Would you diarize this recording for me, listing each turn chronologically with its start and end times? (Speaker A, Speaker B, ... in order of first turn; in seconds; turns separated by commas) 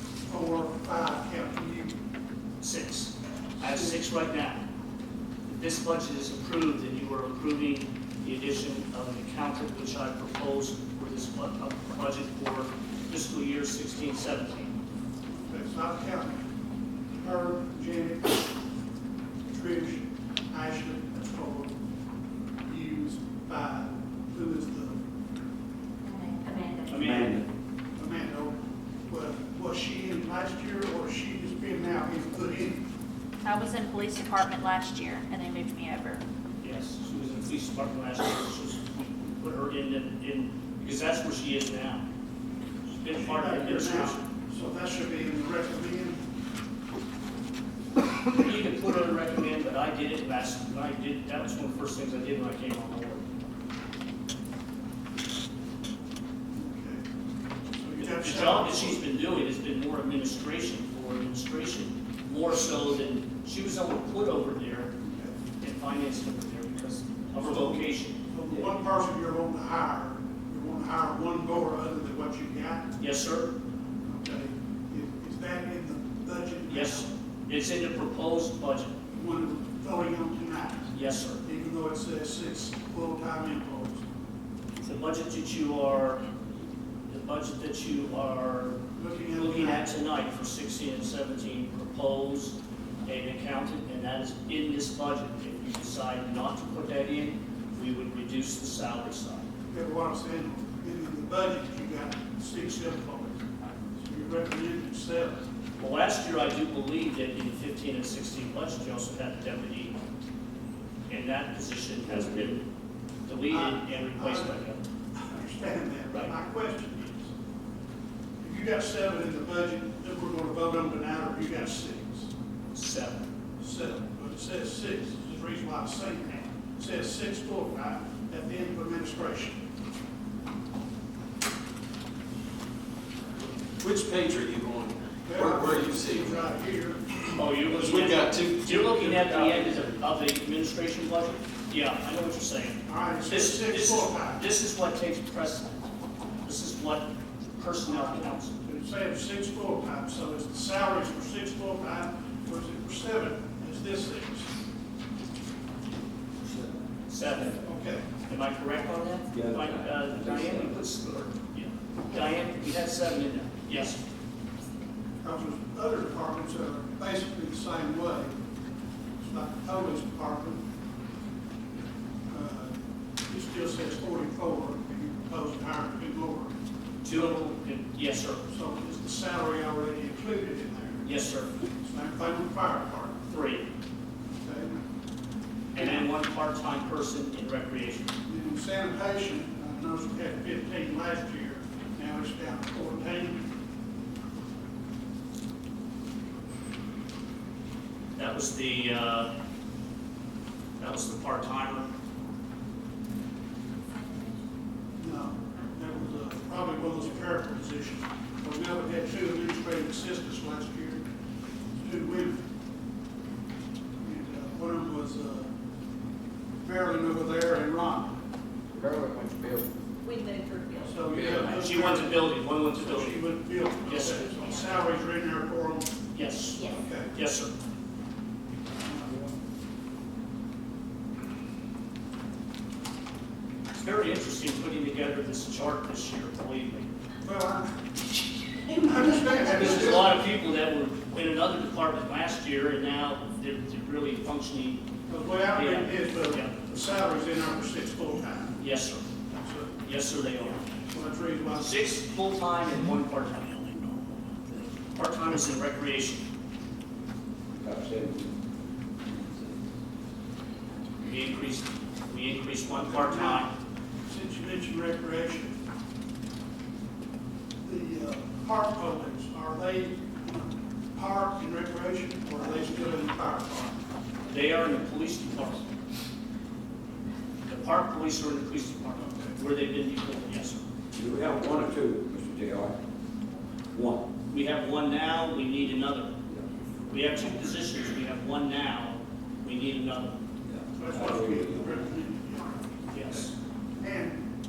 Speaker A: 0.3-1.9, Speaker B: 2.6-4.6, Speaker B: 5.5-14.7, Speaker A: 15.3-16.4, Speaker A: 17.1-18.4, Speaker A: 19.5-21.7, Speaker A: 22.6-25.0, Speaker C: 26.1-27.0, Speaker B: 26.9-27.4, Speaker D: 26.9-27.4, Speaker A: 28.0-28.6, Speaker A: 29.1-32.8, Speaker E: 33.4-36.2, Speaker B: 36.6-42.0, Speaker B: 42.9-44.2, Speaker A: 43.1-46.2, Speaker B: 48.3-53.2, Speaker A: 56.5-57.0, Speaker A: 57.8-59.0, Speaker B: 58.0-64.9, Speaker A: 65.0-65.3, Speaker B: 65.6-68.2, Speaker A: 67.4-72.9, Speaker B: 73.0-73.5, Speaker A: 74.0-77.0, Speaker B: 76.7-78.9, Speaker A: 79.1-80.8, Speaker B: 80.9-81.4, Speaker A: 81.4-84.0, Speaker B: 84.8-86.2, Speaker B: 87.1-88.8, Speaker A: 89.0-89.8, Speaker B: 89.3-99.4, Speaker A: 99.7-103.4, Speaker A: 104.0-105.4, Speaker B: 105.8-110.0, Speaker B: 111.1-112.7, Speaker B: 113.2-114.8, Speaker A: 113.5-114.5, Speaker A: 115.1-117.3, Speaker A: 118.4-122.3, Speaker B: 122.7-123.2, Speaker A: 123.6-129.6, Speaker F: 133.8-136.5, Speaker A: 135.2-137.2, Speaker B: 137.3-145.9, Speaker F: 137.6-139.9, Speaker A: 142.8-144.4, Speaker B: 146.4-148.5, Speaker A: 147.9-154.5, Speaker B: 157.1-157.6, Speaker A: 157.6-158.1, Speaker B: 158.2-164.0, Speaker D: 159.3-160.8, Speaker A: 165.2-168.3, Speaker A: 169.2-170.6, Speaker A: 172.3-172.7, Speaker A: 173.3-176.5, Speaker B: 177.0-178.4, Speaker A: 178.5-181.1, Speaker B: 181.0-181.5, Speaker A: 181.8-183.2, Speaker B: 183.3-183.7, Speaker A: 184.4-184.8, Speaker A: 185.7-186.1, Speaker B: 185.7-188.1, Speaker A: 188.2-193.4, Speaker B: 198.2-199.3, Speaker B: 200.8-201.9, Speaker A: 205.0-211.0, Speaker A: 211.8-212.4, Speaker A: 214.0-215.5, Speaker A: 216.6-218.2, Speaker D: 218.7-219.8, Speaker C: 220.0-221.1, Speaker A: 220.8-225.9, Speaker D: 221.1-221.6, Speaker B: 221.4-223.2, Speaker B: 223.8-224.8, Speaker B: 226.1-227.5, Speaker A: 226.7-227.1, Speaker A: 228.8-229.2, Speaker B: 233.7-236.9, Speaker A: 237.2-238.0, Speaker A: 238.6-240.2, Speaker B: 239.4-244.8, Speaker A: 245.1-248.6, Speaker B: 245.5-246.5, Speaker B: 248.6-249.1, Speaker A: 249.3-249.8, Speaker B: 249.8-250.7, Speaker A: 250.9-251.7, Speaker B: 251.5-256.2, Speaker D: 257.5-258.4, Speaker D: 259.1-259.5, Speaker B: 261.0-263.5, Speaker A: 262.7-263.5, Speaker A: 264.0-265.5, Speaker A: 267.6-273.8, Speaker B: 274.3-275.6, Speaker B: 277.4-280.6, Speaker A: 279.0-279.4, Speaker D: 280.9-282.8, Speaker D: 283.7-284.1, Speaker B: 284.3-286.1, Speaker B: 286.9-290.1, Speaker A: 290.7-294.2, Speaker D: 290.9-291.8, Speaker B: 292.9-293.3